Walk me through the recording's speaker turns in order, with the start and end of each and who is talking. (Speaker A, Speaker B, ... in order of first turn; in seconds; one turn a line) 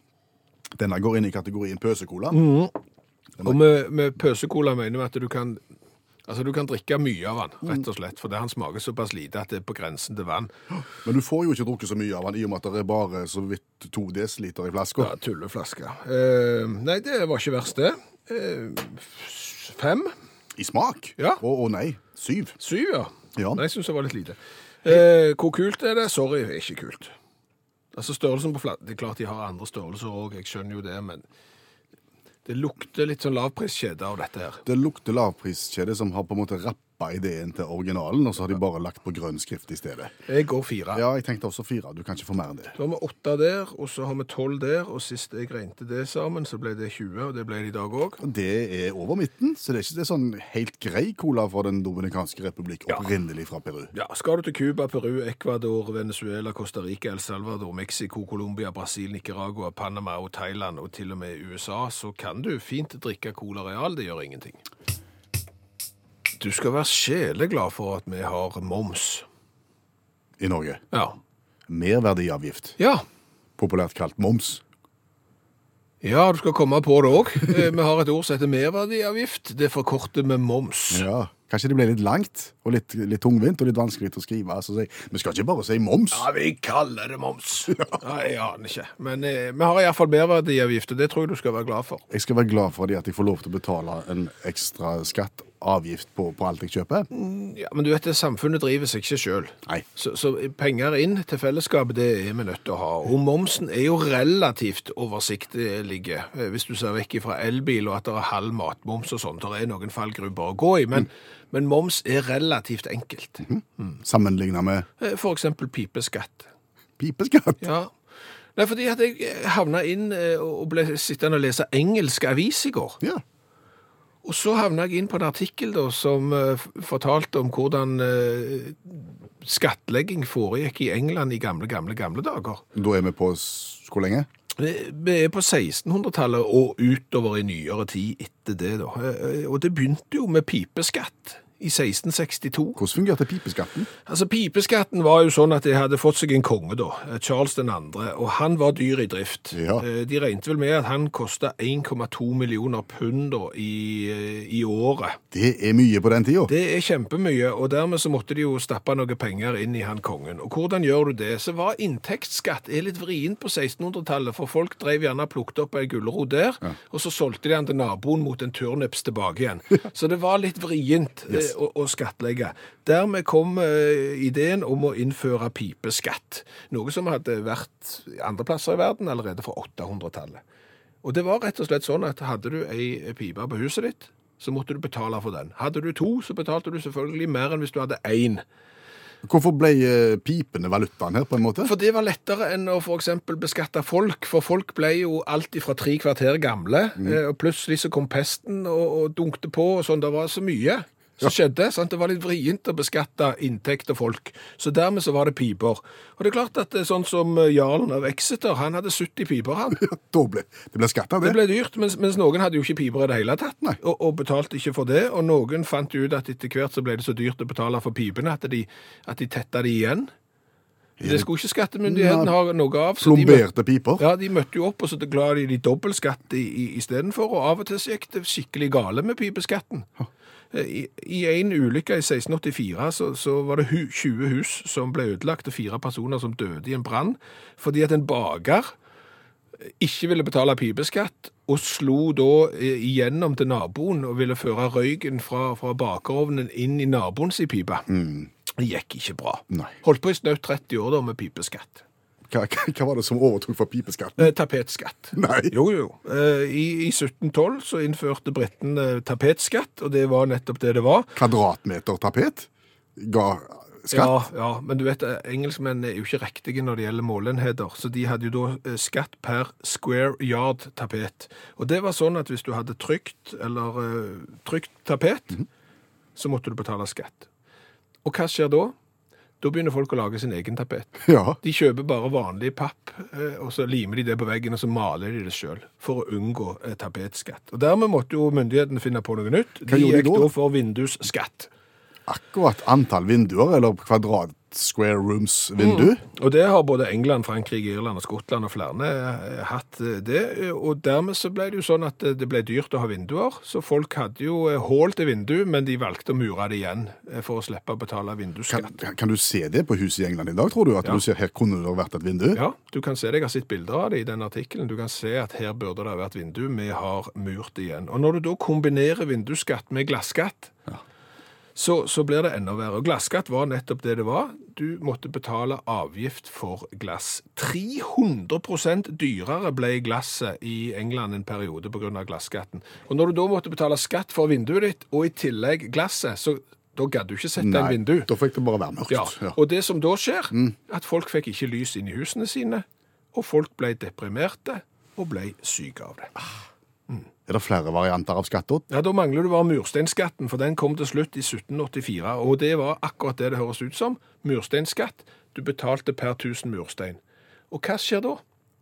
Speaker A: 0.8-2.4
Speaker B: 2.3-2.7
Speaker B: 3.4-5.6
Speaker B: 6.3-10.5
Speaker A: 11.0-15.1
Speaker B: 15.0-20.1
Speaker A: 20.6-22.6
Speaker B: 22.6-27.1
Speaker A: 23.4-23.6
Speaker B: 27.9-31.3
Speaker B: 32.5-34.6
Speaker A: 34.7-40.1
Speaker B: 40.3-41.0
Speaker A: 40.9-42.8
Speaker B: 42.8-48.2
Speaker A: 48.2-53.9
Speaker B: 53.9-64.6
Speaker B: 66.4-69.3
Speaker A: 70.4-70.8
Speaker B: 70.9-71.2
Speaker A: 71.7-72.8
Speaker B: 72.8-73.0
Speaker A: 73.6-74.6
Speaker B: 76.0-81.1
Speaker A: 80.9-86.3
Speaker B: 86.1-92.0
Speaker A: 87.7-88.0
Speaker A: 92.1-97.1
Speaker B: 97.1-114.0
Speaker A: 113.4-114.9
Speaker B: 115.0-116.5
Speaker A: 117.0-117.6
Speaker B: 117.6-118.0
Speaker B: 118.6-123.0
Speaker B: 124.2-132.6
Speaker A: 132.8-134.3
Speaker B: 134.6-142.8
Speaker A: 142.8-143.9
Speaker B: 144.1-155.2
Speaker A: 149.5-149.8
Speaker A: 155.3-156.5
Speaker B: 156.5-180.4
Speaker B: 181.0-188.4
Speaker A: 189.2-191.7
Speaker B: 191.6-209.8
Speaker A: 209.8-211.4
Speaker B: 211.2-220.1
Speaker A: 221.0-221.3
Speaker B: 221.0-223.5
Speaker A: 221.8-222.3
Speaker A: 223.0-224.1
Speaker B: 224.0-229.9
Speaker B: 230.5-238.7
Speaker B: 239.6-247.9
Speaker A: 247.9-248.3
Speaker B: 248.5-251.8
Speaker A: 252.3-254.3
Speaker B: 254.2-261.2
Speaker A: 255.2-255.6
Speaker A: 261.2-264.2
Speaker B: 263.9-275.4
Speaker B: 276.2-277.3
Speaker B: 278.0-278.8
Speaker B: 279.4-291.5
Speaker A: 281.0-281.4
Speaker A: 289.7-290.3
Speaker A: 292.1-296.0
Speaker B: 295.6-308.8
Speaker A: 308.5-312.4
Speaker B: 312.3-320.6
Speaker B: 321.6-338.1
Speaker A: 337.4-339.4
Speaker B: 338.9-346.1
Speaker A: 347.3-348.7
Speaker B: 348.7-357.0
Speaker B: 357.5-358.2